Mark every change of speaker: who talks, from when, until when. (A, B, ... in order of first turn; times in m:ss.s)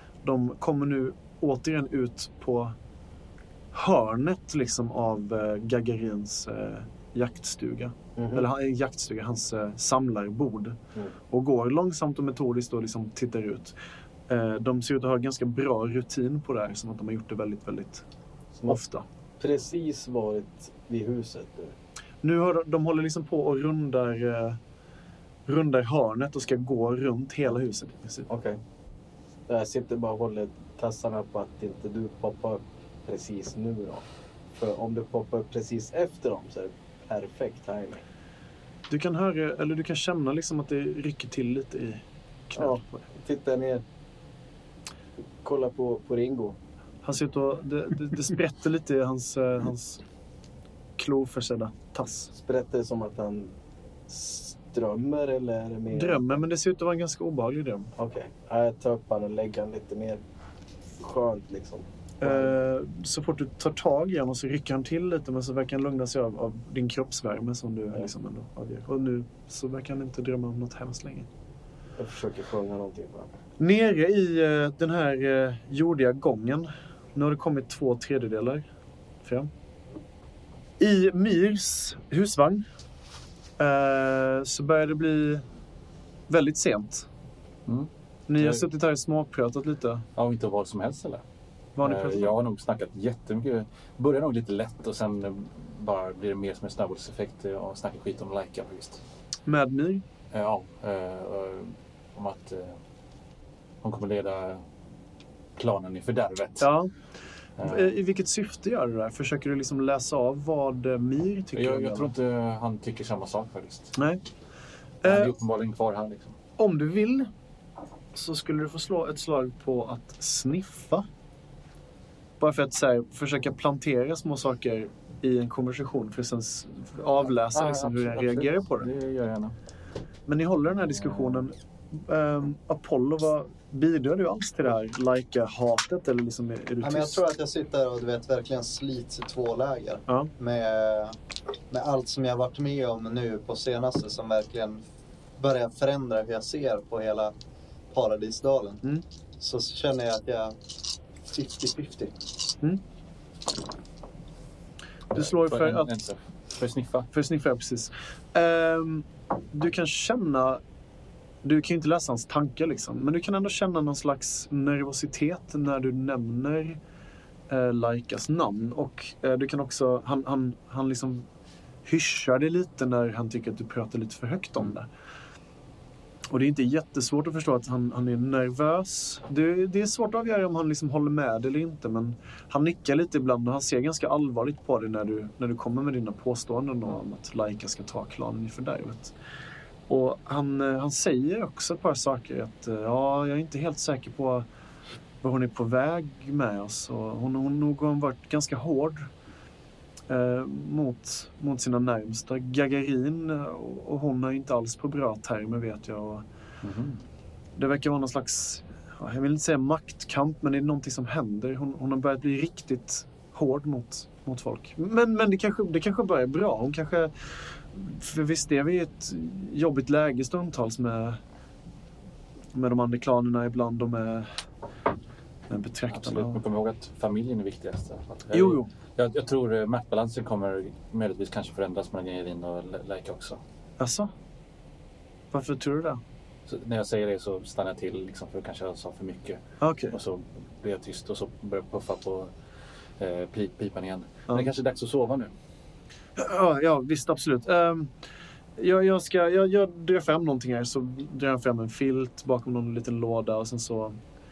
0:00.2-0:02.7 A
0:03.7-0:10.8 A
0:08.2-0:08.5 B
0:11.3-0:13.7 A
0:14.3-0:18.0 A
0:18.5-0:18.8 B
0:18.7-0:19.0 A
0:19.4-0:21.7 B
0:22.2-0:24.6 A
0:25.4-0:28.3 A
0:28.3-0:28.6 B
0:29.5-0:38.0 B
0:38.9-0:43.0 A
0:42.5-0:43.8 B
0:45.4-0:46.6 B
0:47.0-0:50.0 A
0:51.0-0:52.3 A
0:52.3-0:53.5 B
0:54.1-0:56.4 B
0:55.9-0:57.9 A
0:58.0-1:00.2 B
1:01.0-1:02.5 B
1:02.2-1:11.3 A
1:12.0-1:13.3 B
1:13.6-1:18.6 A
1:19.2-1:19.5 A
1:20.8-1:22.6 A
1:23.6-1:25.4 A
1:26.3-1:27.1 A
1:27.6-1:28.6 C
1:28.3-1:30.0 A
1:30.2-1:31.2 C
1:31.8-1:32.4 A
1:31.8-1:39.0 C
1:39.5-1:40.0 A
1:40.3-1:42.8 C
1:43.8-1:44.6 C
1:45.6-1:46.7 C
1:46.6-1:46.9 A
1:47.6-1:47.9 C
1:47.6-1:52.1 A
1:51.5-1:53.9 C
1:54.0-1:54.2 A
1:55.0-1:55.3 A
1:55.0-1:56.3 C
1:56.6-1:57.3 A
1:58.1-2:01.0 A
2:02.4-2:08.9 A
2:07.5-2:09.5 C
2:10.3-2:17.2 A
2:10.9-2:11.4 C
2:16.8-2:21.2 D
2:21.7-2:24.8 D
2:25.4-2:27.3 D
2:27.9-2:28.8 D
2:29.4-2:30.6 D
2:31.3-2:32.1 D
2:35.1-2:35.9 A
2:35.1-2:37.1 C
2:37.1-2:40.6 A
2:41.4-2:46.8 A
2:47.5-2:51.3 A
2:51.8-2:54.9 A
2:56.3-3:09.1 A
3:09.9-3:14.4 A
3:15.2-3:19.1 A
3:20.1-3:26.2 A
3:26.6-3:27.0 C
3:27.6-3:41.2 A
3:42.5-3:44.3 A
3:45.5-3:46.4 A
3:45.9-3:53.4 C
3:48.3-3:48.7 A
3:53.8-3:54.1 A
3:55.3-3:56.0 A
3:56.4-4:02.3 C
3:59.6-4:00.0 A
4:03.0-4:05.3 C
4:06.2-4:07.9 A
4:08.6-4:14.0 A